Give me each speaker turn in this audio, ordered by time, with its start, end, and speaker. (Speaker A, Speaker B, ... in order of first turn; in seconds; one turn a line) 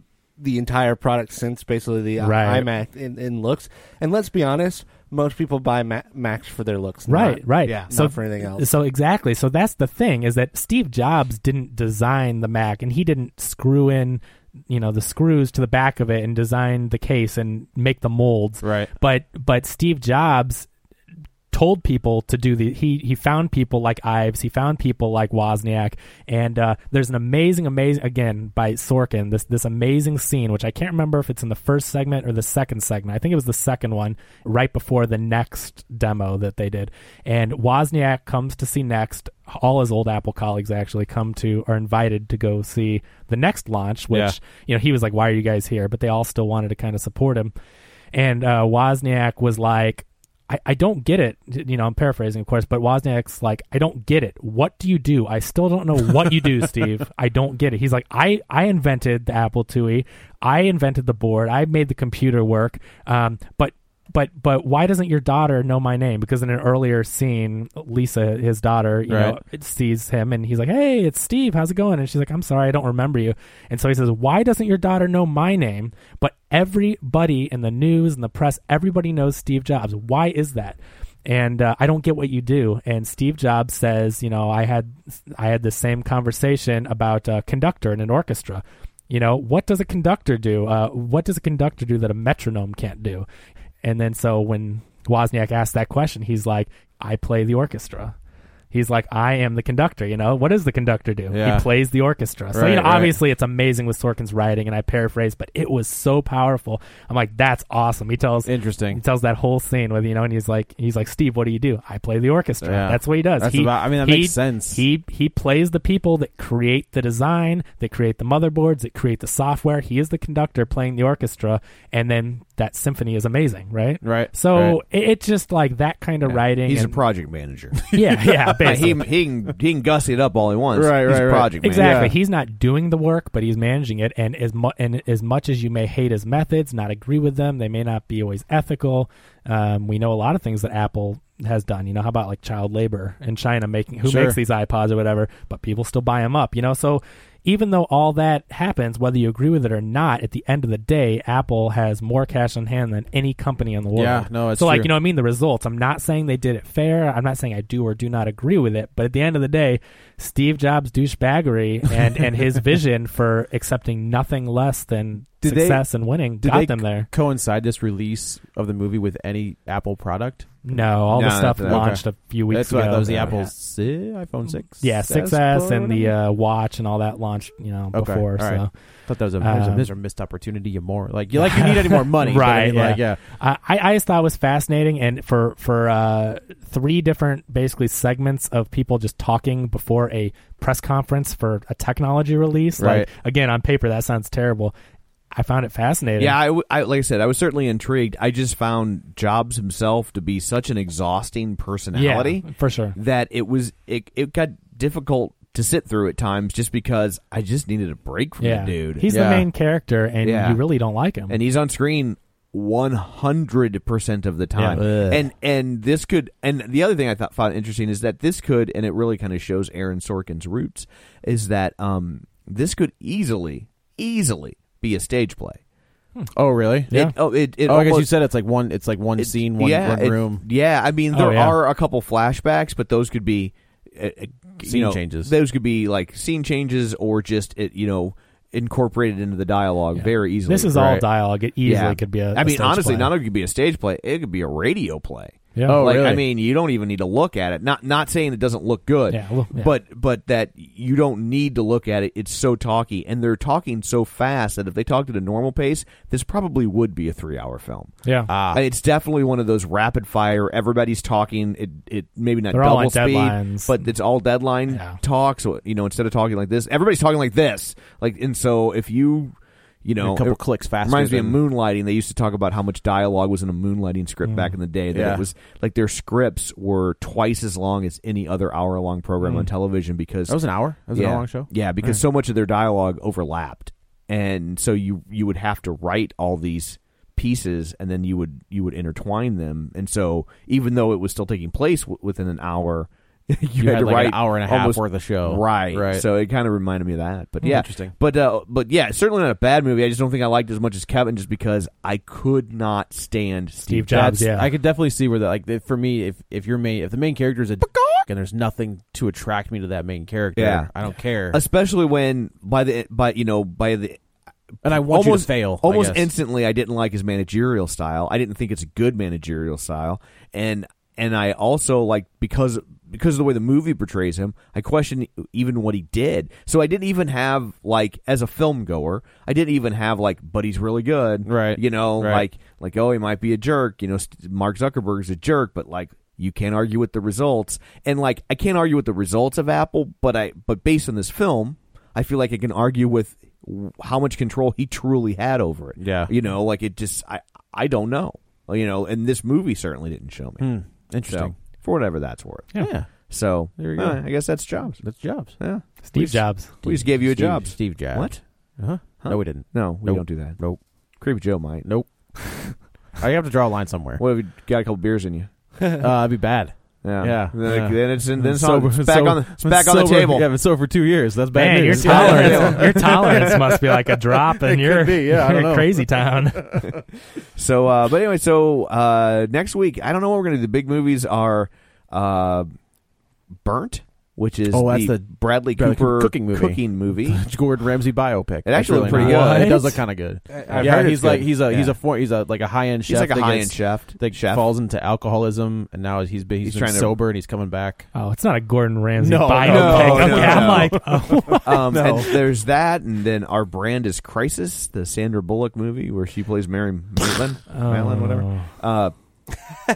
Speaker A: 0.4-8.7
Speaker B: 2.2-2.7
Speaker B: 7.1-20.7
Speaker C: 7.6-7.9
Speaker D: 18.6-18.9
Speaker B: 21.5-47.5
Speaker D: 44.1-44.4
Speaker B: 48.1-93.2
Speaker D: 69.1-69.4
Speaker B: 93.8-98.1
Speaker B: 98.7-127.0
Speaker D: 101.3-101.7
Speaker D: 102.5-103.2
Speaker D: 108.5-109.0
Speaker D: 112.6-114.8
Speaker D: 124.0-124.8
Speaker C: 126.6-127.8
Speaker D: 127.9-128.9
Speaker B: 127.9-129.0
Speaker C: 128.6-132.1
Speaker D: 130.7-132.1
Speaker B: 131.6-167.1
Speaker D: 144.0-144.4
Speaker D: 153.9-154.9
Speaker D: 165.4-165.9
Speaker D: 166.4-170.8
Speaker B: 170.6-173.5
Speaker C: 171.1-172.0
Speaker D: 171.6-176.1
Speaker B: 174.6-178.7
Speaker D: 177.9-183.2
Speaker B: 179.4-179.9
Speaker B: 181.3-194.7
Speaker D: 192.8-193.1
Speaker B: 195.3-196.3
Speaker C: 196.2-209.1
Speaker B: 201.9-202.9
Speaker B: 208.4-211.4
Speaker D: 209.1-209.5
Speaker C: 210.2-210.6
Speaker C: 211.3-225.6
Speaker B: 214.5-214.8
Speaker D: 214.7-215.3
Speaker D: 226.3-226.9
Speaker B: 226.9-227.1
Speaker C: 226.9-228.1
Speaker D: 227.6-230.4
Speaker C: 229.2-241.0
Speaker B: 231.1-231.6
Speaker D: 234.6-235.3
Speaker B: 239.9-243.1
Speaker C: 241.6-257.9
Speaker B: 245.5-245.8
Speaker D: 245.6-246.2
Speaker B: 249.1-249.7
Speaker B: 258.0-258.3
Speaker D: 258.3-258.6
Speaker C: 258.5-304.2
Speaker B: 262.5-263.7
Speaker B: 264.7-265.0
Speaker D: 270.0-271.4
Speaker B: 274.2-274.5
Speaker D: 274.9-275.2
Speaker B: 279.2-279.5
Speaker D: 280.3-282.0
Speaker D: 293.6-296.1
Speaker D: 297.4-297.9
Speaker B: 303.7-304.5
Speaker D: 303.9-311.4
Speaker C: 310.4-310.7
Speaker C: 311.3-314.0
Speaker C: 314.6-354.8
Speaker D: 314.6-316.1
Speaker D: 331.2-332.3
Speaker D: 345.8-346.1
Speaker D: 350.4-351.4
Speaker D: 352.6-355.4
Speaker C: 355.4-358.2
Speaker B: 355.8-356.5
Speaker D: 356.6-360.6
Speaker C: 358.8-360.4
Speaker C: 361.0-361.7
Speaker D: 361.6-364.0
Speaker C: 364.0-365.3
Speaker D: 365.8-376.8
Speaker C: 366.8-370.3
Speaker B: 371.3-376.6
Speaker C: 371.8-373.4
Speaker C: 377.4-382.5
Speaker C: 383.4-387.2
Speaker D: 384.5-397.9
Speaker C: 388.4-389.7
Speaker B: 388.9-389.8
Speaker A: 390.3-391.3
Speaker C: 391.4-391.8
Speaker C: 392.9-394.5
Speaker C: 396.4-396.9
Speaker B: 397.9-401.9
Speaker D: 399.0-402.2
Speaker C: 399.4-400.8
Speaker C: 401.4-408.9
Speaker B: 407.5-408.5